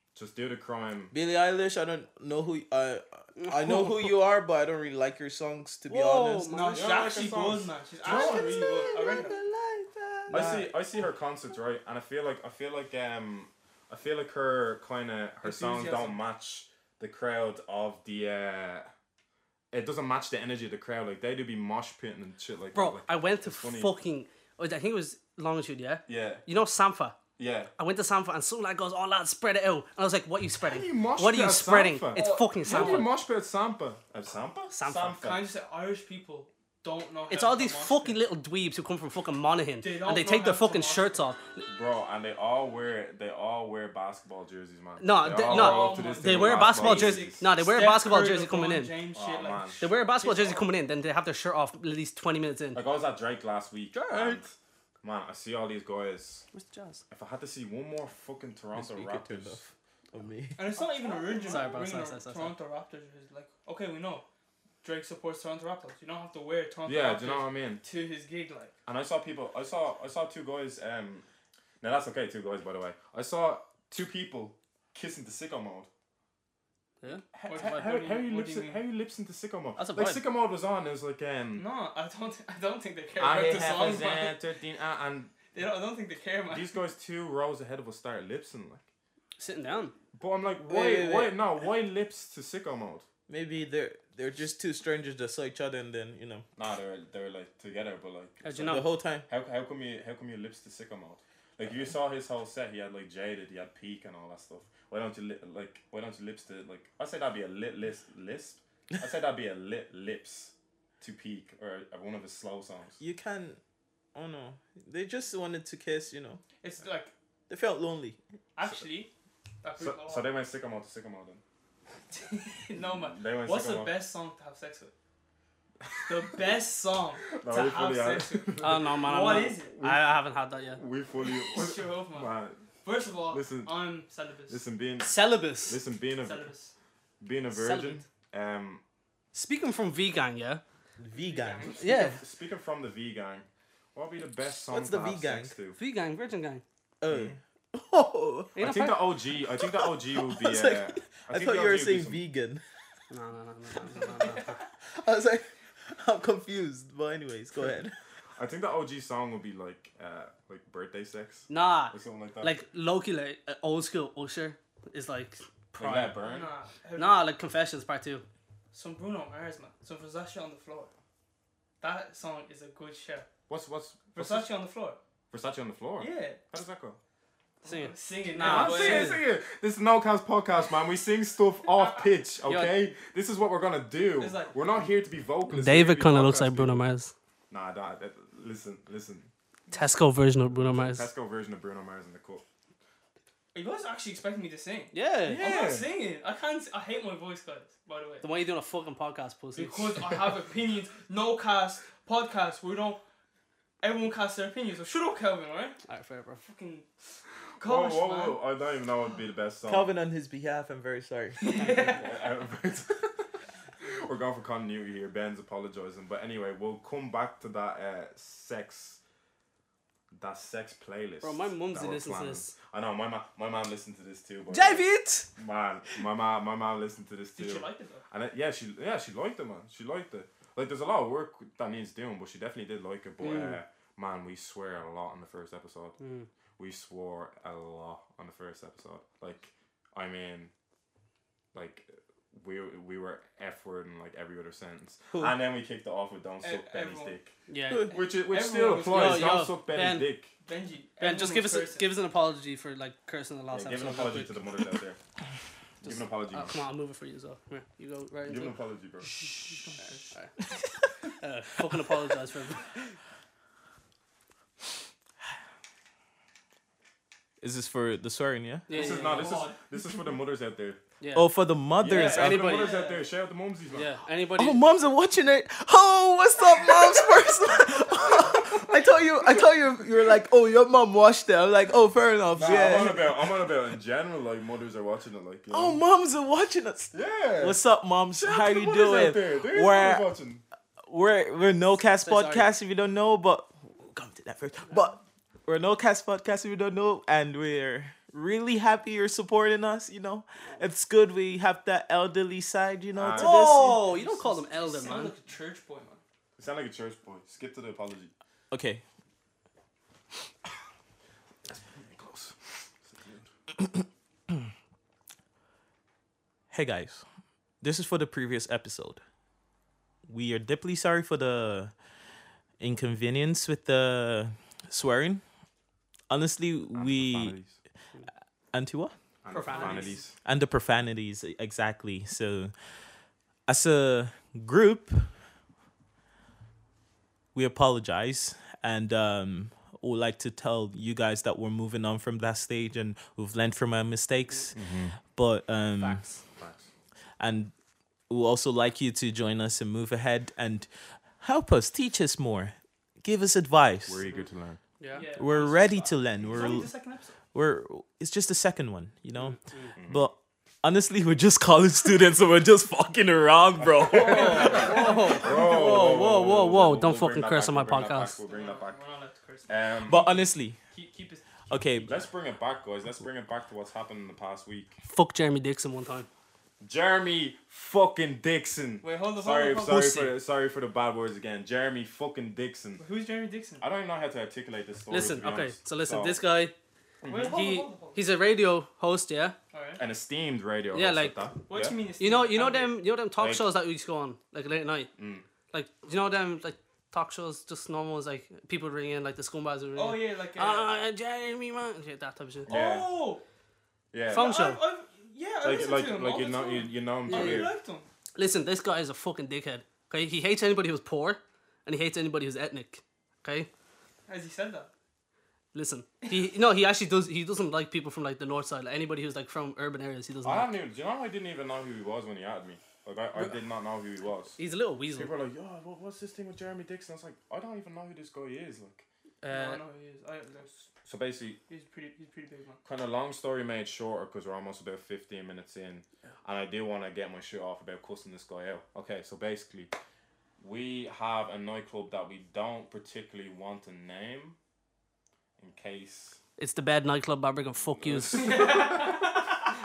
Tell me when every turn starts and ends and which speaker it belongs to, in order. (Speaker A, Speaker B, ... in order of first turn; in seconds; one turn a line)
Speaker A: 0.1-1.1
Speaker B: 1.1-6.5
Speaker C: 3.4-4.2
Speaker C: 5.9-7.0
Speaker D: 6.5-9.3
Speaker A: 6.7-8.6
Speaker B: 8.0-10.6
Speaker A: 10.3-18.9
Speaker D: 10.3-10.7
Speaker D: 15.4-16.2
Speaker A: 19.7-23.9
Speaker C: 22.7-27.2
Speaker A: 26.1-26.4
Speaker A: 27.4-27.7
Speaker C: 27.8-33.1
Speaker A: 30.6-35.5
Speaker D: 32.1-33.1
Speaker C: 34.7-35.1
Speaker D: 35.1-38.2
Speaker C: 37.3-41.7
Speaker D: 39.8-41.2
Speaker A: 41.6-47.5
Speaker C: 45.0-48.9
Speaker D: 45.4-50.7
Speaker A: 49.1-49.9
Speaker C: 49.8-52.8
Speaker A: 52.7-56.4
Speaker C: 53.9-54.4
Speaker C: 56.5-57.0
Speaker A: 57.1-59.7
Speaker B: 58.7-60.7
Speaker D: 60.5-64.2
Speaker C: 61.0-62.5
Speaker D: 64.8-68.7
Speaker A: 66.8-67.8
Speaker A: 68.8-71.2
Speaker A: 71.8-75.9
Speaker C: 77.0-77.8
Speaker A: 77.3-81.6
Speaker D: 77.5-78.8
Speaker C: 79.8-80.2
Speaker D: 81.5-84.3
Speaker A: 83.2-85.3
Speaker D: 85.5-86.8
Speaker A: 86.5-88.8
Speaker C: 89.4-89.9
Speaker A: 90.1-93.0
Speaker B: 90.6-91.3
Speaker B: 93.3-96.5
Speaker A: 96.5-98.7
Speaker C: 98.4-98.8
Speaker B: 98.5-99.3
Speaker A: 99.3-113.0
Speaker B: 113.0-113.6
Speaker B: 114.1-116.4
Speaker D: 116.6-117.1
Speaker B: 117.5-118.2
Speaker D: 118.5-119.1
Speaker D: 119.6-120.3
Speaker A: 119.8-121.4
Speaker D: 122.1-124.9
Speaker A: 122.8-123.9
Speaker A: 125.8-126.4
Speaker D: 126.1-129.7
Speaker A: 127.3-128.9
Speaker C: 128.6-130.8
Speaker A: 129.7-130.2
Speaker A: 130.7-132.6
Speaker D: 131.2-132.3
Speaker D: 132.8-134.6
Speaker A: 133.3-133.7
Speaker A: 134.5-136.5
Speaker C: 135.0-135.8
Speaker D: 136.2-136.7
Speaker A: 137.2-138.8
Speaker C: 137.5-138.0
Speaker C: 139.3-140.6
Speaker B: 141.0-141.8
Speaker D: 141.1-142.0
Speaker C: 141.8-142.2
Speaker A: 141.8-145.8
Speaker B: 144.7-145.5
Speaker C: 145.8-146.6
Speaker B: 147.0-148.5
Speaker A: 147.1-147.4
Speaker C: 148.5-149.0
Speaker A: 148.6-152.2
Speaker B: 149.6-152.6
Speaker C: 153.1-154.6
Speaker D: 154.2-154.5
Speaker B: 154.8-157.9
Speaker A: 158.3-162.6
Speaker C: 161.5-166.2
Speaker A: 165.8-166.5
Speaker D: 166.2-167.3
Speaker C: 166.9-168.2
Speaker D: 168.7-170.9
Speaker D: 171.8-173.3
Speaker A: 173.5-174.5
Speaker D: 174.1-175.0
Speaker A: 175.3-177.0
Speaker D: 176.0-176.4
Speaker D: 177.6-179.2
Speaker C: 177.6-179.2
Speaker A: 178.4-186.8
Speaker C: 182.4-182.8
Speaker D: 184.2-184.5
Speaker C: 185.5-187.1
Speaker A: 187.5-189.3
Speaker C: 189.7-191.1
Speaker A: 190.7-192.4
Speaker D: 193.5-198.2
Speaker C: 194.9-195.4
Speaker A: 195.2-195.9
Speaker C: 198.2-200.0
Speaker D: 199.6-203.0
Speaker D: 203.8-205.8
Speaker C: 205.9-206.4
Speaker D: 206.4-206.9
Speaker D: 207.6-208.4
Speaker A: 207.6-209.9
Speaker B: 209.7-211.5
Speaker D: 211.4-212.1
Speaker C: 211.6-211.9
Speaker A: 211.7-213.3
Speaker A: 213.8-219.0
Speaker A: 220.1-235.9
Speaker C: 221.2-222.5
Speaker C: 224.5-225.3
Speaker D: 227.3-228.1
Speaker C: 233.2-233.6
Speaker C: 236.0-236.3
Speaker A: 236.6-240.5
Speaker A: 241.5-247.3
Speaker D: 246.4-247.2
Speaker C: 247.5-247.9
Speaker D: 247.9-249.4
Speaker A: 247.9-250.3
Speaker C: 248.9-250.1
Speaker D: 250.4-251.9
Speaker C: 251.0-254.4
Speaker A: 253.5-255.0
Speaker A: 255.8-256.5
Speaker C: 255.8-258.5
Speaker A: 258.2-259.1
Speaker D: 259.5-260.1
Speaker C: 261.2-262.8
Speaker B: 267.4-268.7
Speaker C: 268.7-269.3
Speaker A: 268.7-270.8
Speaker D: 268.7-270.0
Speaker C: 271.0-271.3
Speaker B: 271.1-272.5
Speaker A: 271.8-273.9
Speaker C: 271.9-272.8
Speaker D: 271.9-273.1
Speaker C: 273.7-274.6
Speaker B: 274.4-283.2
Speaker A: 278.1-278.5
Speaker A: 282.3-285.8
Speaker B: 285.5-290.1
Speaker A: 286.9-287.6
Speaker A: 288.1-290.4
Speaker B: 290.8-303.8
Speaker C: 292.0-292.5
Speaker A: 302.9-303.4
Speaker C: 303.1-305.1
Speaker D: 303.3-306.0
Speaker A: 306.4-308.1
Speaker B: 308.5-308.8
Speaker A: 311.6-313.3
Speaker B: 316.5-317.0
Speaker B: 317.6-319.0
Speaker B: 320.1-321.7
Speaker B: 322.6-325.2
Speaker B: 326.1-327.4
Speaker A: 326.7-327.6
Speaker B: 328.5-328.9
Speaker A: 329.2-330.1
Speaker D: 329.3-330.0
Speaker C: 329.6-329.8
Speaker B: 330.2-332.5
Speaker B: 333.5-335.1
Speaker B: 337.3-346.0
Speaker A: 344.5-345.0
Speaker C: 345.8-346.2
Speaker A: 346.4-346.7
Speaker B: 347.2-347.5
Speaker B: 348.1-354.0
Speaker A: 353.9-354.6
Speaker C: 354.8-355.1
Speaker D: 354.9-357.2
Speaker B: 355.1-356.7
Speaker B: 357.3-366.0
Speaker C: 359.1-359.7
Speaker A: 359.7-360.1
Speaker A: 363.6-368.8
Speaker D: 364.0-365.2
Speaker C: 364.0-368.2
Speaker D: 368.3-371.4
Speaker A: 369.5-370.0
Speaker B: 369.9-370.6
Speaker B: 371.5-372.1
Speaker A: 371.8-374.8
Speaker C: 374.8-376.1
Speaker A: 376.6-382.8
Speaker D: 378.8-379.9
Speaker C: 379.6-380.1
Speaker D: 382.8-383.6
Speaker A: 383.6-386.2
Speaker C: 384.9-386.5
Speaker A: 387.0-387.4
Speaker D: 387.1-388.0
Speaker C: 387.2-389.4
Speaker D: 389.5-389.8
Speaker A: 389.8-391.8
Speaker C: 390.7-391.3
Speaker D: 391.5-392.8
Speaker C: 392.0-394.9
Speaker A: 393.2-393.5
Speaker A: 395.0-395.2
Speaker C: 395.5-402.5
Speaker D: 399.7-400.7
Speaker A: 402.5-402.9
Speaker D: 402.5-403.2
Speaker A: 403.9-404.3
Speaker C: 404.1-404.6
Speaker D: 404.1-407.9
Speaker A: 405.4-407.5
Speaker C: 407.1-407.5
Speaker C: 408.1-413.5
Speaker D: 414.1-414.7
Speaker C: 415.5-420.5
Speaker D: 416.0-416.3
Speaker A: 420.2-424.4
Speaker C: 424.4-425.1
Speaker A: 424.9-428.9
Speaker C: 429.2-429.6
Speaker D: 429.3-430.7
Speaker A: 430.8-431.4
Speaker D: 431.5-432.6
Speaker A: 432.6-439.7
Speaker A: 440.4-444.4
Speaker A: 445.4-446.2
Speaker C: 446.4-448.5
Speaker A: 447.7-449.0
Speaker D: 448.1-449.2